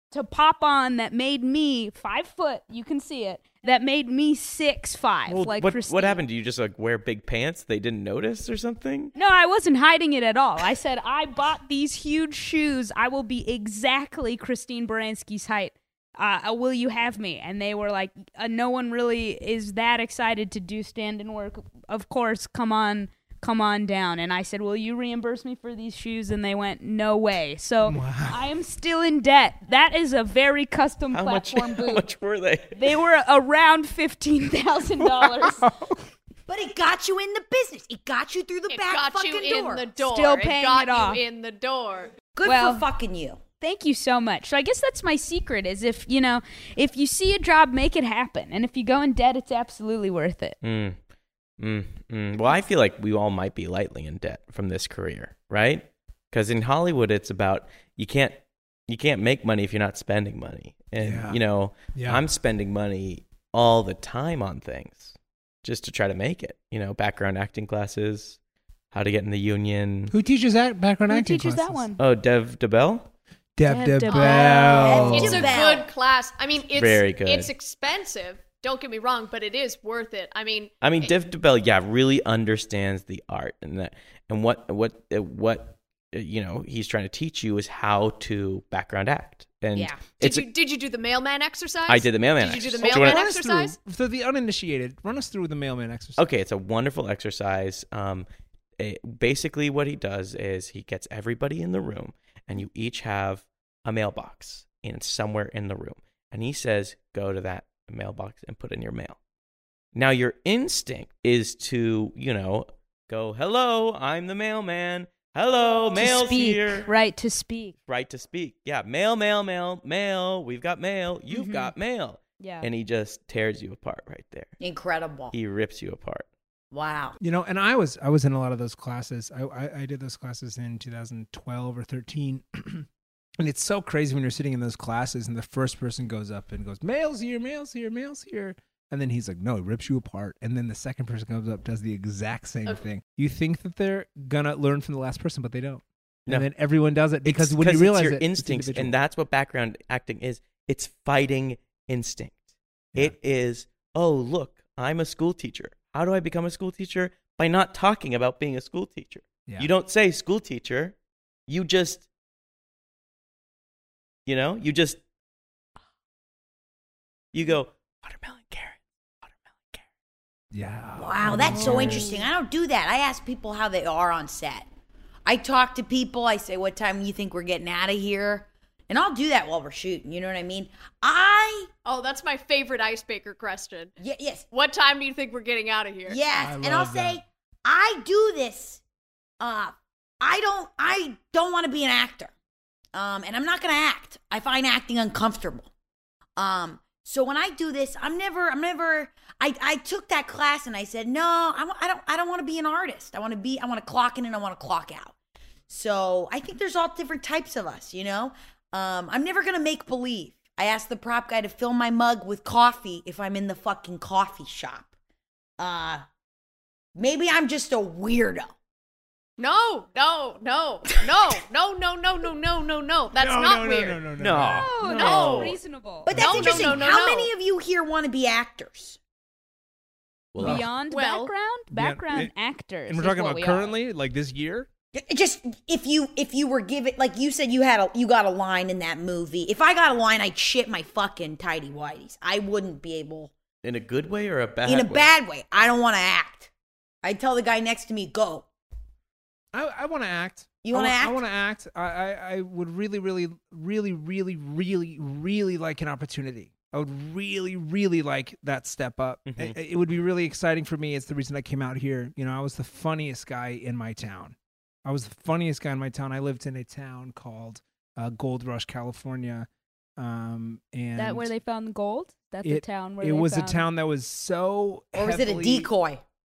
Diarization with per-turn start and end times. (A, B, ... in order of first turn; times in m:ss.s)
0:00.1-0:06.2 A
0:05.3-0:09.1 B
0:09.1-0:32.1 A
0:27.8-0:28.4 C
0:31.1-0:32.8 B
0:32.7-0:35.7 A
0:35.0-0:36.0 C
0:36.5-0:39.9 D
0:38.7-0:42.2 E
0:40.0-0:41.2 A
0:42.3-0:43.4 D
0:42.4-0:42.8 A
0:43.6-0:50.6 A
0:50.6-0:51.0 B
0:51.6-1:08.4 B
1:01.0-1:01.4 C
1:01.9-1:02.2 C
1:08.9-1:10.1 B
1:10.1-1:11.8 C
1:11.1-1:12.0 A
1:12.0-1:13.1 B
1:13.6-1:15.6 C
1:13.6-1:15.2 A
1:14.1-1:21.1 E
1:14.2-1:15.9 D
1:16.7-1:17.5 B
1:20.8-1:30.5 B
1:29.7-1:30.0 D
1:30.2-1:33.8 E
1:31.9-1:33.2 B
1:32.8-1:36.2 C
1:36.2-1:38.3 B
1:38.8-1:49.2 B
1:49.9-1:56.9 B
1:55.9-1:57.8 A
1:57.9-2:04.5 B
2:01.3-2:01.7 A
2:02.4-2:02.7 A
2:04.6-2:05.3 D
2:05.3-2:06.3 B
2:06.7-2:07.2 D
2:07.2-2:12.8 C
2:13.4-2:28.9 C
2:27.2-2:32.4 B
2:32.9-2:41.0 B
2:41.5-2:42.0 B
2:44.2-2:45.0 B
2:47.3-2:49.8 B
2:50.5-2:52.2 C
2:51.0-2:54.6 D
2:51.4-2:51.9 B
2:55.2-3:01.7 D
3:01.8-3:03.9 E
3:04.0-3:04.5 D
3:04.5-3:06.2 E
3:06.0-3:08.8 D
3:06.4-3:07.2 C
3:09.4-3:12.3 D
3:12.9-3:15.7 D
3:16.4-3:25.1 D
3:25.7-3:34.9 D
3:35.6-3:36.0 D
3:37.0-3:38.5 D
3:39.4-3:44.0 E
3:43.2-3:45.2 C
3:44.2-3:45.5 B
3:44.5-3:46.1 A
3:44.9-3:45.6 E
3:46.0-3:49.0 D
3:46.1-3:47.3 E
3:46.2-3:46.7 C
3:50.3-3:50.6 B
3:50.4-3:50.7 C
3:50.4-3:53.8 A
3:50.9-3:51.3 E
3:51.7-3:52.3 C
3:52.9-3:54.7 C
3:54.9-4:03.3 D
4:03.6-4:05.1 B
4:04.6-4:06.5 D
4:07.0-4:08.4 D
4:09.5-4:31.3 C
4:10.6-4:11.2 D
4:19.3-4:19.6 B
4:31.0-4:33.7 A
4:32.4-4:35.7 C
4:34.9-4:36.0 D